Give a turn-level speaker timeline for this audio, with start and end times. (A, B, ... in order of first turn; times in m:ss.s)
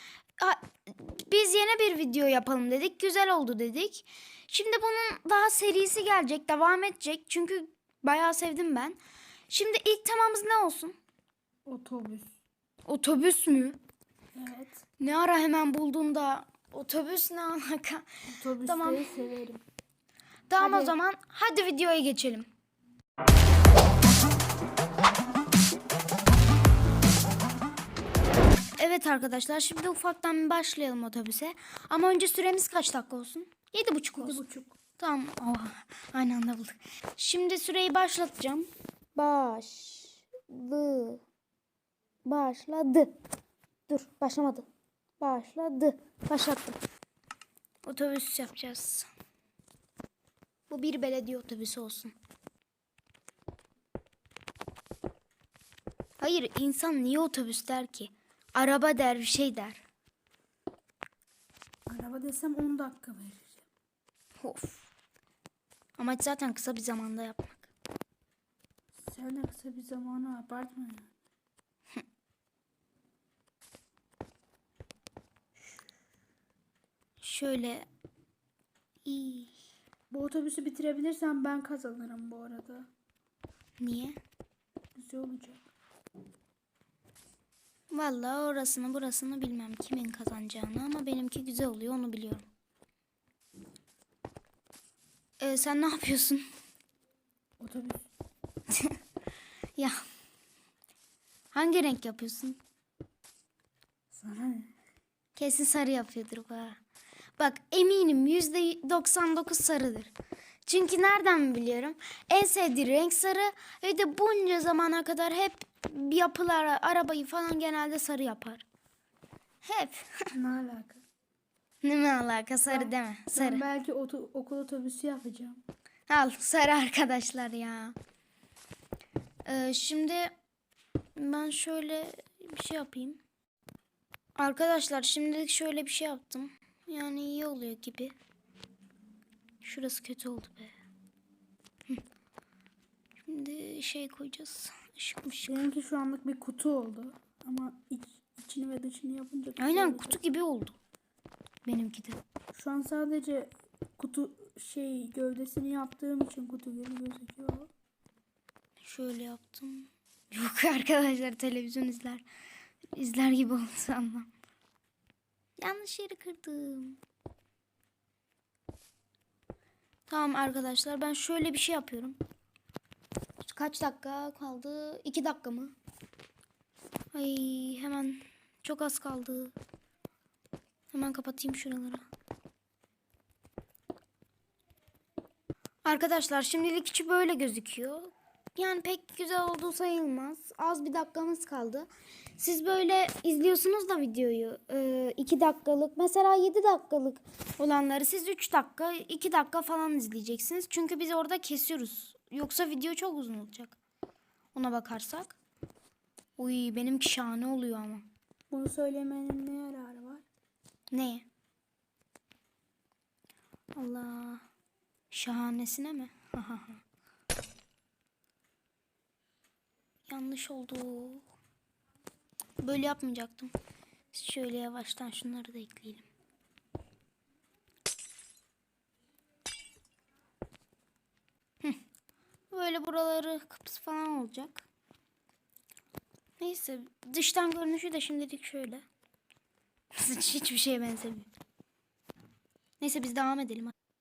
0:00.4-0:09.0 A
0:09.5-0:11.0 A
0:11.7-0:12.3 B
0:12.8-0:13.8 A
0:14.3-0:14.8 B
0:15.0-0:19.1 A
0:18.3-0:19.6 B
0:20.5-0:22.5 A
0:20.6-0:21.0 B
0:28.8-0:34.4 A
0:34.2-0:34.8 B
0:35.0-0:41.2 A
0:42.2-0:43.1 A
0:43.9-0:44.7 A
0:45.2-0:46.8 A
0:47.8-0:49.1 A
0:50.7-0:52.1 A
0:56.2-0:59.8 A
1:01.9-1:03.7 B
1:04.4-1:04.9 A
1:06.0-1:07.7 A
1:09.0-1:11.1 B
1:17.2-1:17.9 A
1:19.0-1:19.5 A
1:20.1-1:22.9 B
1:23.8-1:24.2 A
1:25.0-1:25.6 B
1:27.9-1:32.5 A
1:35.4-1:36.5 A
1:37.6-1:38.1 B
1:38.7-1:39.0 A
1:39.8-1:40.0 A
1:41.5-1:42.6 A
1:44.1-1:44.7 B
1:45.4-1:46.8 A
1:47.4-1:50.1 A
1:50.7-1:58.6 A
1:59.6-2:00.3 A
2:00.3-2:01.0 B
2:01.8-2:03.6 A
2:02.7-2:05.6 B
2:06.1-2:08.0 A
2:09.4-2:10.3 A
2:11.2-2:13.2 A
2:14.4-2:18.2 A
2:19.6-2:20.7 A
2:23.2-2:25.7 A
2:25.5-2:30.2 B
2:29.6-2:30.8 A
2:31.6-2:32.2 A
2:32.5-2:37.7 B
2:38.8-2:42.2 A
2:43.0-2:44.3 A
2:45.6-2:47.0 A
2:50.1-2:52.2 A
2:53.4-2:55.8 A
2:57.1-2:59.5 A
3:00.9-3:02.0 A
3:05.8-3:23.8 A
3:24.5-3:25.4 A
3:26.4-3:28.1 A
3:28.5-3:30.2 B
3:30.9-3:31.3 A
3:33.8-3:34.4 A
3:35.1-3:36.8 A
3:40.1-3:41.2 A
3:42.6-3:43.5 A
3:44.1-3:46.1 A
3:52.5-3:54.6 A
3:56.4-3:58.8 A
3:59.9-4:01.3 A
4:02.8-4:03.7 A